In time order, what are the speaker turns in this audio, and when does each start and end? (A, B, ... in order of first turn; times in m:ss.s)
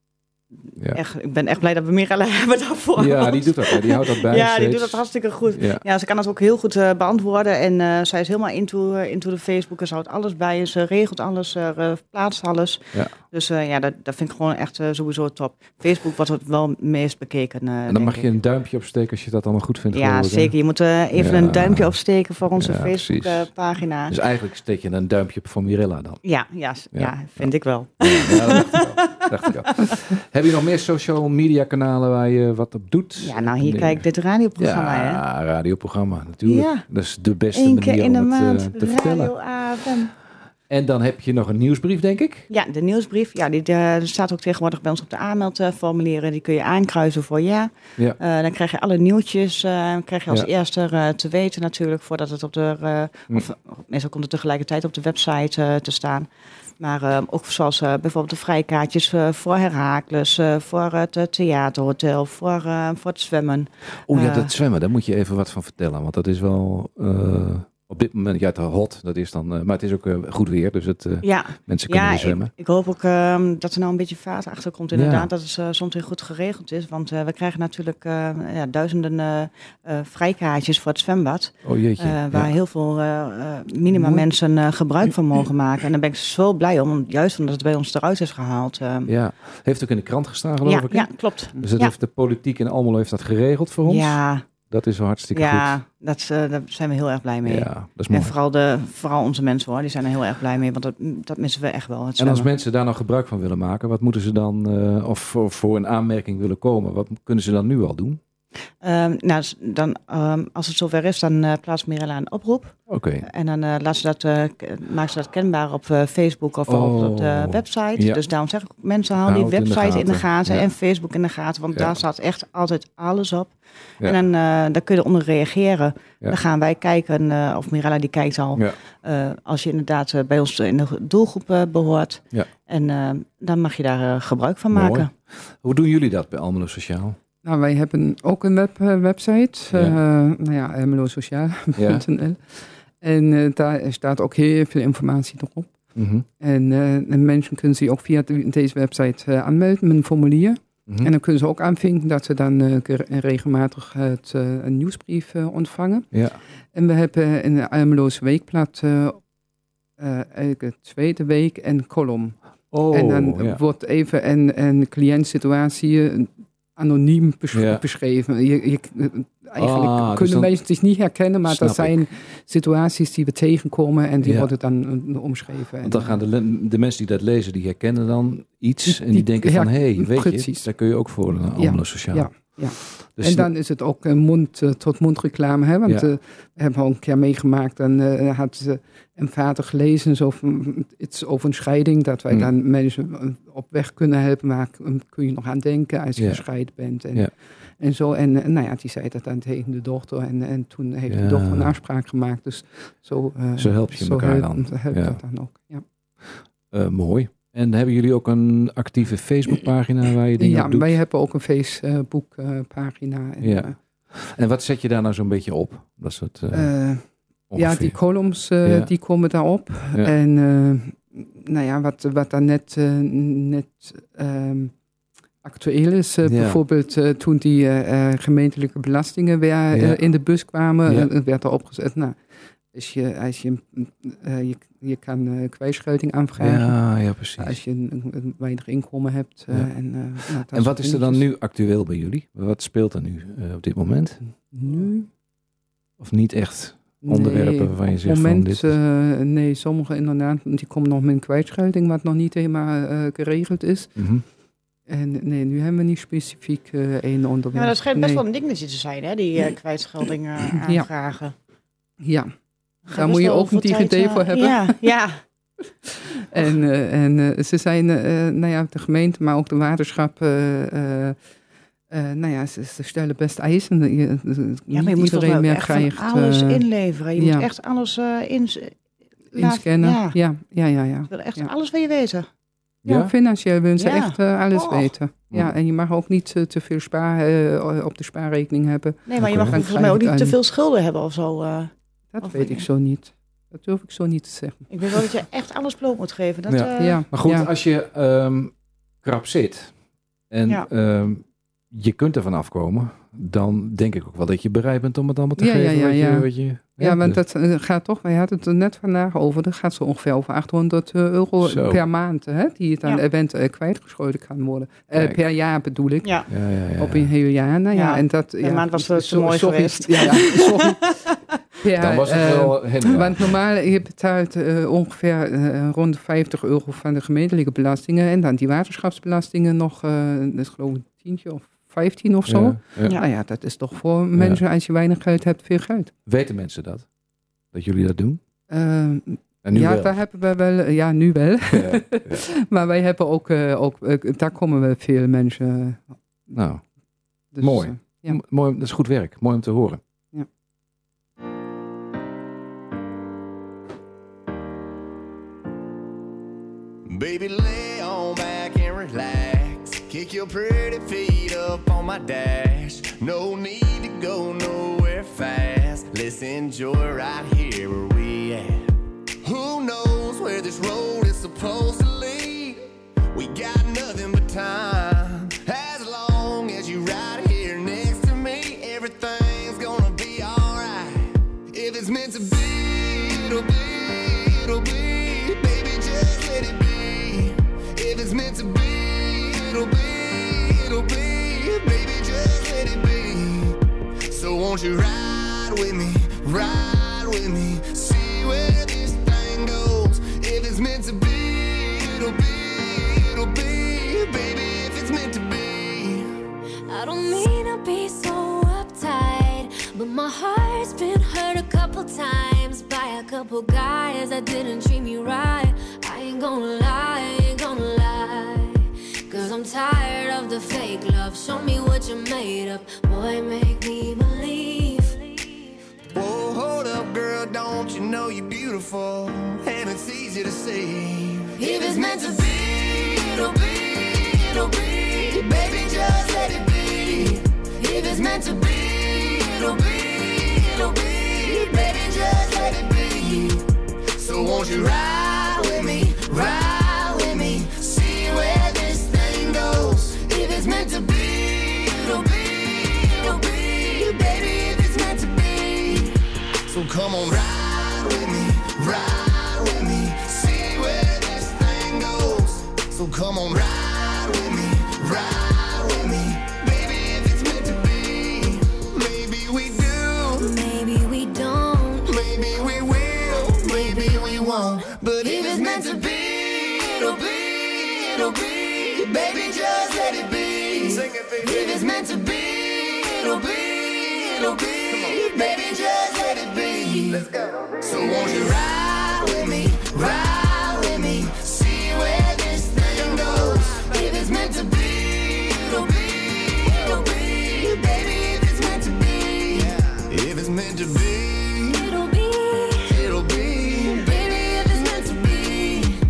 0:00.9-0:18.3 A
0:03.0-0:05.8 B
0:17.9-0:20.5 B
0:19.9-0:24.1 A
0:21.1-0:22.0 B
0:22.6-0:23.5 B
0:24.1-0:26.2 B
0:26.2-0:29.9 A
0:26.9-0:34.0 B
0:33.2-0:35.2 A
0:34.6-0:39.3 B
0:36.4-0:36.8 A
0:37.5-0:40.1 A
0:40.7-0:42.5 B
0:42.5-0:56.3 A
0:56.8-1:04.5 A
1:04.1-1:12.5 B
1:11.2-1:29.1 A
1:14.9-1:15.3 B
1:21.6-1:22.6 B
1:23.9-1:24.2 C
1:29.0-1:35.8 B
1:30.6-1:31.9 A
1:33.8-1:34.5 A
1:35.3-1:42.5 A
1:37.4-1:38.3 B
1:42.2-1:48.2 B
1:48.8-2:15.1 A
1:52.9-1:53.3 B
1:56.7-1:58.2 B
1:59.2-2:00.7 B
2:01.7-2:02.0 B
2:14.7-2:17.2 B
2:17.4-2:25.7 C
2:19.7-2:20.0 B
2:21.7-2:22.0 B
2:25.9-2:26.2 B
2:26.4-2:36.1 C
2:36.1-2:36.4 B
2:36.7-2:39.2 C
2:40.0-2:42.4 C
2:42.7-2:43.6 B
2:42.9-2:56.2 C
2:47.5-2:47.8 B
2:49.6-2:50.5 B
2:51.4-2:52.0 B
2:54.2-2:54.5 B
2:55.8-3:03.5 B
2:58.8-3:00.7 C
3:01.6-3:25.8 C
3:16.2-3:16.4 B
3:21.1-3:21.8 B
3:23.6-3:25.2 B
3:26.2-3:31.0 B
3:30.4-3:33.8 C
3:33.4-3:36.8 B
3:36.5-3:44.7 C
3:37.5-3:38.9 B
3:45.4-3:52.2 C
3:46.2-3:46.6 B
3:49.7-3:50.0 B
3:50.8-3:51.1 B
3:52.7-4:01.2 C
3:56.4-3:57.6 B
4:00.2-4:04.2 B
4:04.5-4:05.1 C
4:06.0-4:08.8 B
4:07.0-4:14.0 C
4:14.0-4:14.2 B
4:14.9-4:18.2 C
4:17.5-4:21.3 A
4:22.0-4:22.3 C
4:22.8-4:24.9 C
4:22.9-4:25.2 A
4:25.9-4:31.2 C
4:31.9-4:36.6 C
4:34.7-4:40.2 A
4:37.2-4:37.5 C
4:39.3-4:41.5 C
4:41.1-4:42.3 A
4:42.8-4:43.1 B
4:42.8-4:50.4 C
4:43.8-4:44.9 A
4:49.0-4:52.6 A
4:49.2-4:49.6 B
4:52.1-4:54.7 C
4:54.7-4:57.0 A
4:56.5-4:59.8 B
4:56.8-4:57.5 C
5:00.3-5:07.2 B
5:05.4-5:21.0 C
5:11.4-5:11.8 B
5:14.9-5:15.2 B
5:16.0-5:16.3 A
5:16.3-5:17.1 B
5:17.7-5:21.2 A
5:21.6-5:35.9 C
5:21.8-5:23.3 B
5:32.3-5:33.0 B
5:34.2-5:34.4 B
5:36.0-5:36.9 B
5:37.5-5:38.2 B
5:38.5-5:46.3 C
5:39.4-5:40.0 B
5:41.5-5:42.3 B
5:46.3-5:46.6 B
5:47.3-5:48.2 C
5:47.4-5:49.8 B
5:56.8-6:08.7 D
6:09.2-6:33.6 D
6:34.1-6:46.1 D
6:46.7-7:05.6 E
7:05.9-7:23.4 D
7:11.4-7:12.1 E
7:13.0-7:13.4 E
7:24.0-7:35.9 D
7:36.5-7:50.4 D
7:50.2-7:51.9 E
7:51.8-8:21.7 D
7:53.6-7:54.2 E
7:55.0-7:55.8 E
8:01.3-8:01.8 E
8:21.5-8:22.8 E
8:22.6-8:25.0 D
8:23.8-8:25.7 E